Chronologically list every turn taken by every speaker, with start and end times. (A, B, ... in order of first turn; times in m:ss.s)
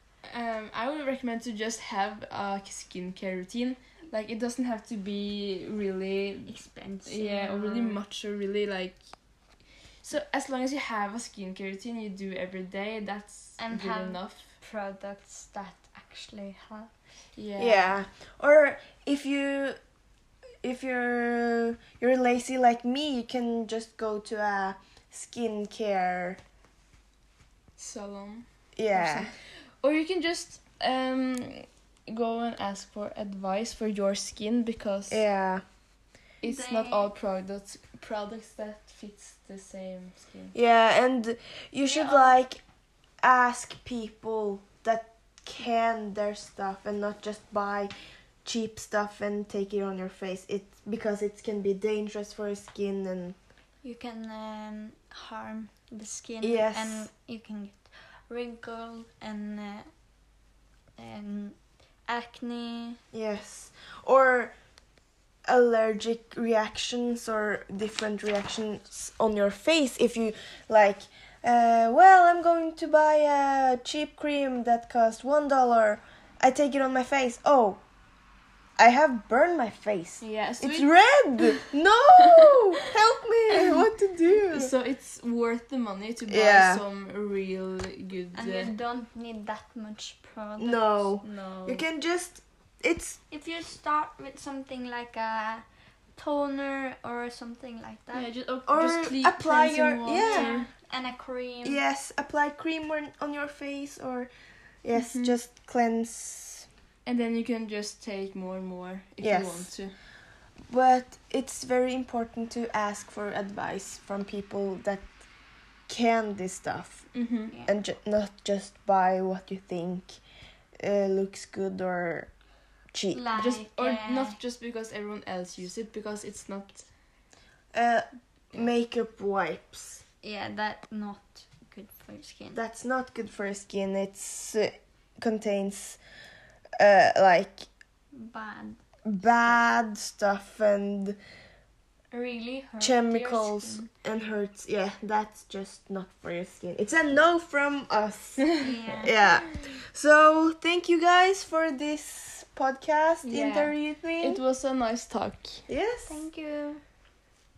0:00.2-0:14.5 A
0:06.5-0:08.0 B
0:13.6-0:16.9 B
0:17.4-0:18.0 A
0:17.6-0:19.8 C
0:20.6-0:26.4 C
0:27.8-0:35.2 A
0:28.7-0:29.3 C
0:35.1-0:35.6 C
0:36.4-0:40.5 A
0:36.4-0:37.1 B
0:40.5-0:42.6 C
0:41.8-0:42.4 B
0:43.2-0:47.9 C
0:48.4-0:53.4 C
0:53.8-1:00.1 B
0:56.4-0:57.1 C
1:01.0-1:03.0 B
1:03.1-1:04.5 C
1:05.4-1:17.8 C
1:18.8-1:24.7 C
1:20.2-1:21.7 A
1:24.4-1:28.7 A
1:26.3-1:26.8 C
1:28.3-1:31.1 B
1:30.6-1:33.2 C
1:31.2-1:31.8 A
1:33.3-1:38.3 B
1:38.1-1:40.7 A
1:38.6-1:40.6 C
1:40.1-1:41.8 B
1:41.6-1:44.3 C
1:44.8-1:46.7 C
1:44.9-1:45.4 A
1:47.0-1:49.9 A
1:49.2-1:49.8 C
1:50.6-1:55.2 C
1:55.9-1:57.1 C
1:57.1-1:57.5 A
1:57.6-2:00.2 C
2:00.8-2:02.3 C
2:02.9-2:03.2 C
2:03.1-2:04.4 B
2:03.4-2:07.0 A
2:07.7-2:10.0 C
2:10.2-2:12.6 B
2:12.5-2:16.0 C
2:16.8-2:17.7 C
2:18.1-2:18.8 B
2:19.0-2:21.2 C
2:22.1-2:23.9 B
2:22.8-2:34.4 C
2:28.6-2:29.2 B
2:33.2-2:35.6 A
2:35.7-2:36.2 C
2:36.1-2:36.8 B